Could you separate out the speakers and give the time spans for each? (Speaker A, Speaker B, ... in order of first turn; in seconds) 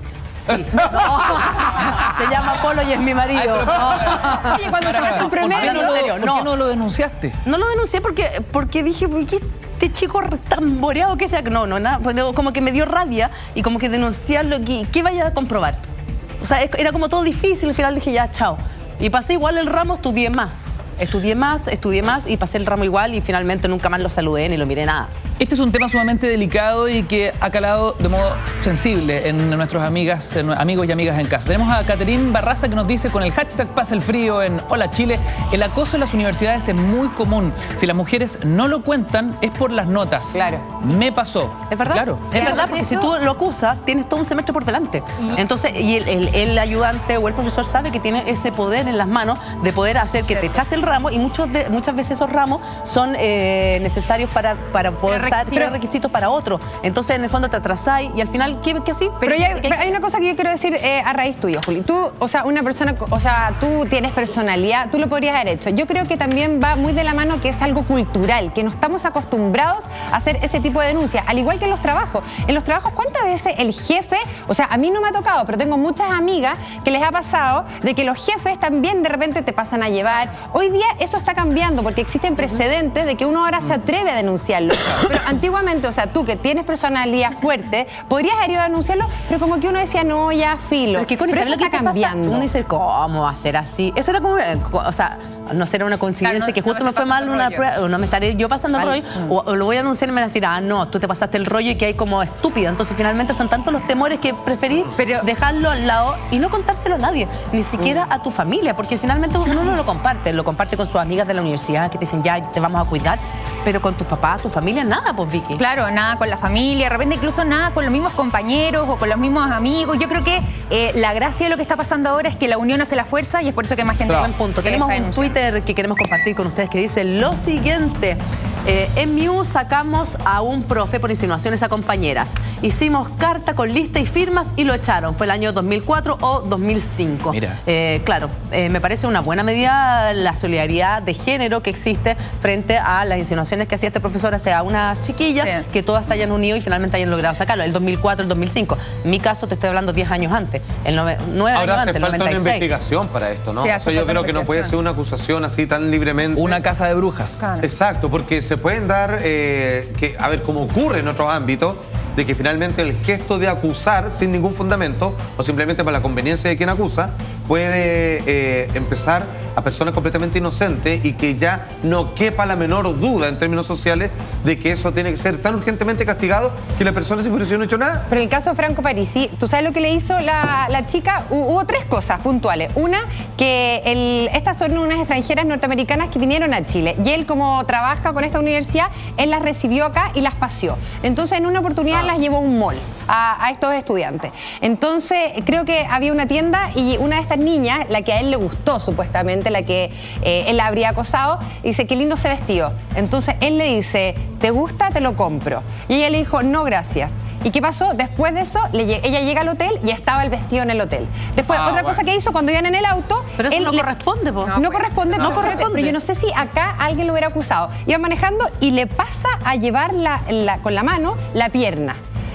Speaker A: 0.4-6.5, 7.4-15.9, 16.4-25.1, 41.7-59.8, 90.9-115.6, 124.1-152.7, 213.4-214.6, 215.2-216.0
Speaker B: 3.3-7.3, 25.4-42.3, 137.3-137.6, 156.3-157.4
Speaker C: 4.4-6.0, 40.3-40.6, 42.3-43.1, 59.2-92.5, 178.1-213.8, 214.5-222.0
Speaker D: 55.1-55.5, 96.2-97.7, 105.0-105.3, 115.5-125.4, 153.6-154.7, 157.4-157.7, 214.5-215.6
Speaker E: 151.5-156.6, 157.6-178.1, 211.5-212.0